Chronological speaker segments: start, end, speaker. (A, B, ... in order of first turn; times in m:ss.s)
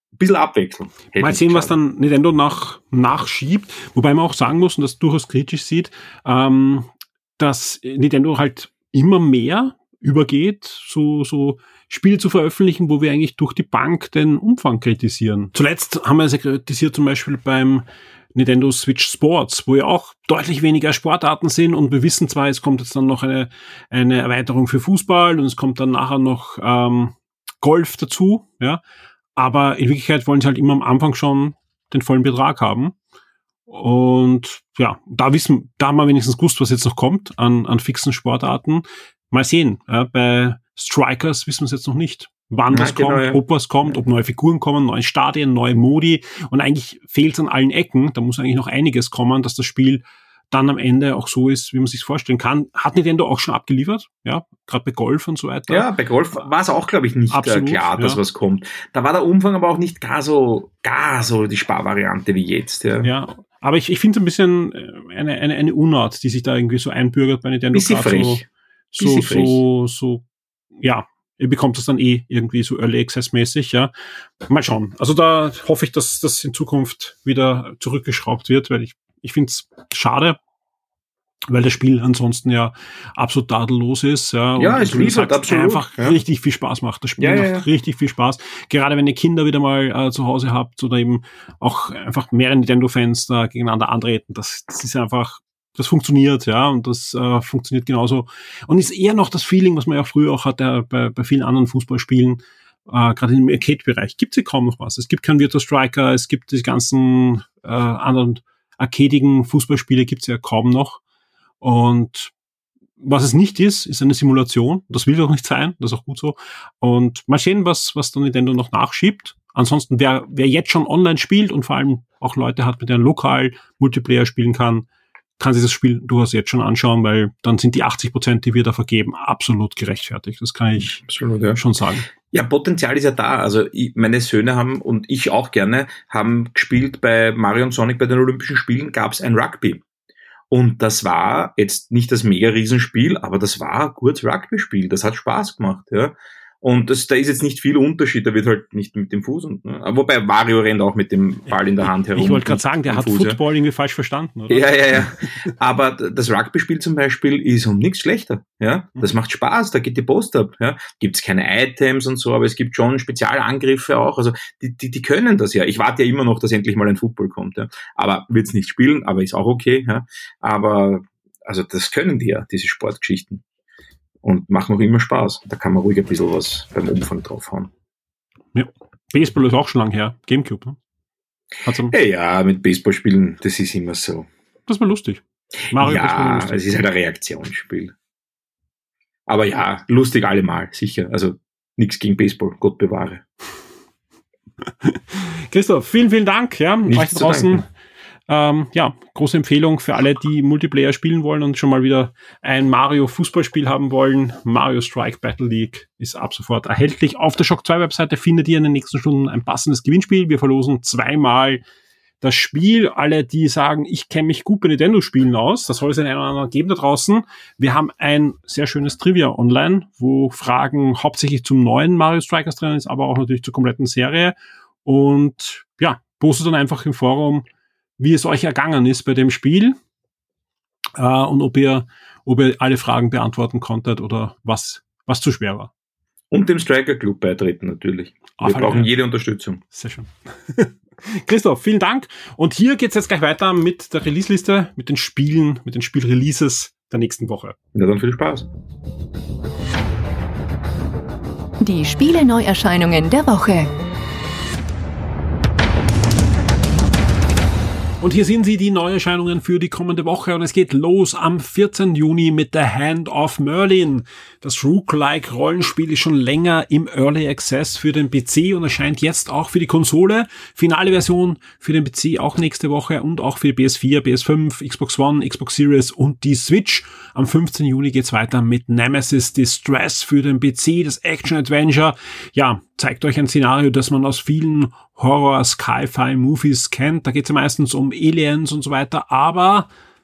0:00.2-0:01.8 A
0:01.2-0:28.8 B
0:29.4-0:33.0 B
0:33.7-0:55.9 B
0:42.7-0:43.4 A
0:55.7-1:03.1 A
0:57.3-0:58.2 B
1:03.0-1:08.4 B
1:07.7-1:08.5 A
1:08.9-1:10.2 B
1:09.0-1:09.6 A
1:10.8-1:13.9 B
1:14.5-1:20.4 B
1:21.5-1:51.0 B
1:24.6-1:26.2 A
1:27.2-1:27.7 A
1:51.6-1:52.3 B
1:53.0-2:04.9 B
2:05.4-2:11.0 B
2:11.0-2:11.6 A
2:11.6-2:12.1 B
2:12.3-2:19.8 A
2:20.5-2:33.4 A
2:32.1-2:35.1 B
2:34.5-2:53.4 A
2:54.2-2:57.7 A
2:58.5-3:00.8 B
3:01.7-3:01.9 B
3:01.9-3:04.3 A
3:04.7-3:06.6 B
3:05.8-3:07.9 A
3:09.3-3:13.2 A
3:14.8-3:17.7 B
3:16.9-3:17.6 A
3:18.3-3:31.6 B
3:32.2-3:47.5 B
3:48.0-3:49.8 B
3:51.0-3:55.7 B
3:56.3-3:59.6 A
3:58.4-3:58.9 B
3:59.7-4:07.6 B
4:07.8-4:08.5 A
4:11.6-4:13.7 C
4:18.0-4:49.7 B